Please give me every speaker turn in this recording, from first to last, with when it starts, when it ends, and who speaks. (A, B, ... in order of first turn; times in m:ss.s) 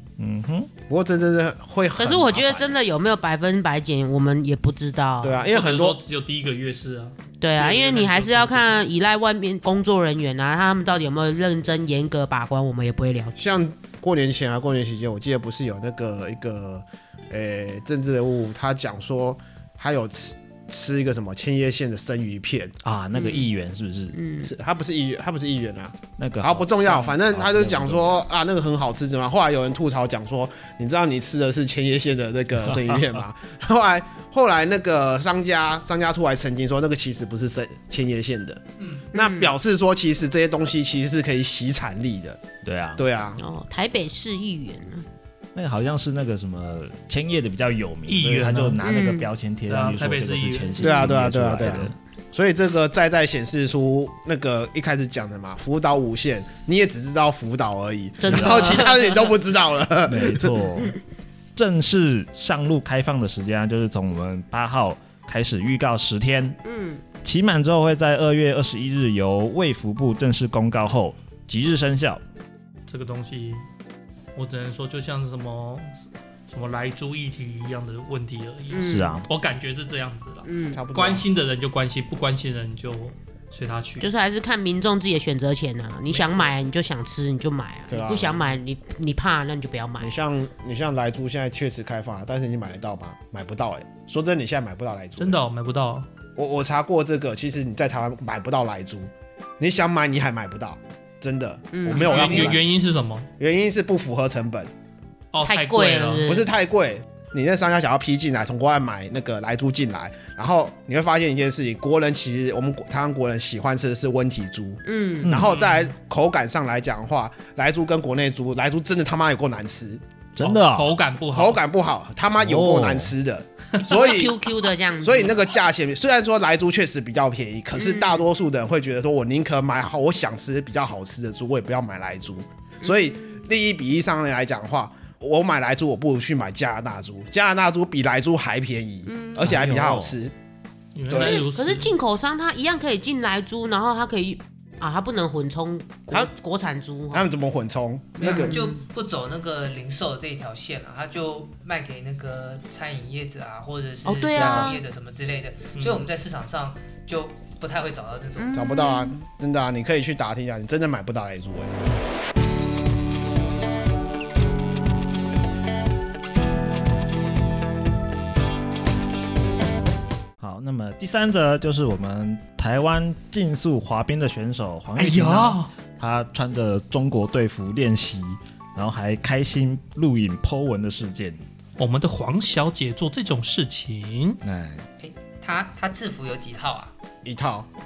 0:00.2-0:00.7 A
0:00.9-0:02.7 B
0:02.0-0:05.4 C
0:05.2-0:06.0 B
0:05.5-0:08.8 D
0:07.4-0:13.5 C
0:13.4-0:22.8 B
0:22.8-0:24.2 A
0:23.2-0:23.5 C
0:24.1-0:24.5 C
0:24.4-0:38.6 B
0:26.2-0:28.2 A
0:38.8-0:39.1 E
0:39.1-0:42.4 B
0:39.1-0:39.5 C
0:42.6-0:43.0 A
0:43.0-0:43.4 B
0:43.4-0:45.0 C
0:45.5-0:52.0 A
0:48.1-0:48.8 D
0:48.8-0:49.3 C
0:49.7-0:50.9 D
0:50.8-1:00.7 B
0:50.8-0:51.1 C
0:58.2-0:59.3 C
0:58.3-0:58.8 A
1:00.1-1:01.0 A
1:01.6-1:06.6 A
1:06.6-1:07.0 C
1:07.2-1:12.2 A
1:12.9-1:13.6 D
1:14.4-1:24.1 D
1:18.7-1:19.2 C
1:18.8-1:19.3 A
1:20.4-1:20.8 C
1:20.7-1:21.3 B
1:24.0-1:30.1 C
1:26.1-1:26.5 D
1:27.9-1:28.6 B
1:30.0-1:35.4 B
1:35.2-1:36.1 D
1:36.4-1:42.6 B
1:41.7-1:42.2 C
1:41.9-1:43.3 D
1:42.0-1:42.6 E
1:43.4-1:44.7 B
1:45.3-1:46.3 D
1:45.4-1:46.5 C
1:46.2-2:00.0 B
1:54.8-1:55.3 C
1:55.2-1:55.6 A
1:55.4-1:55.9 D
2:00.4-2:00.9 A
2:00.4-2:01.6 D
2:01.3-2:04.4 B
2:02.4-2:03.1 A
2:03.8-2:05.4 C
2:05.0-2:20.3 B
2:07.8-2:08.2 C
2:12.8-2:13.4 C
2:19.1-2:19.5 C
2:19.4-2:20.2 A
2:21.0-2:21.9 D
2:21.1-2:21.4 B
2:21.1-2:27.3 C
2:27.1-2:28.6 B
2:28.2-2:28.8 C
2:28.2-2:38.7 E
2:34.0-2:34.8 C
2:34.4-2:34.7 B
2:35.8-2:36.0 D
2:38.4-2:39.2 C
2:38.6-2:41.7 B
2:50.4-3:01.4 A
2:55.0-2:55.7 D
3:01.8-3:04.4 D
3:04.4-3:04.9 A
3:05.0-3:06.9 E
3:07.2-3:07.7 B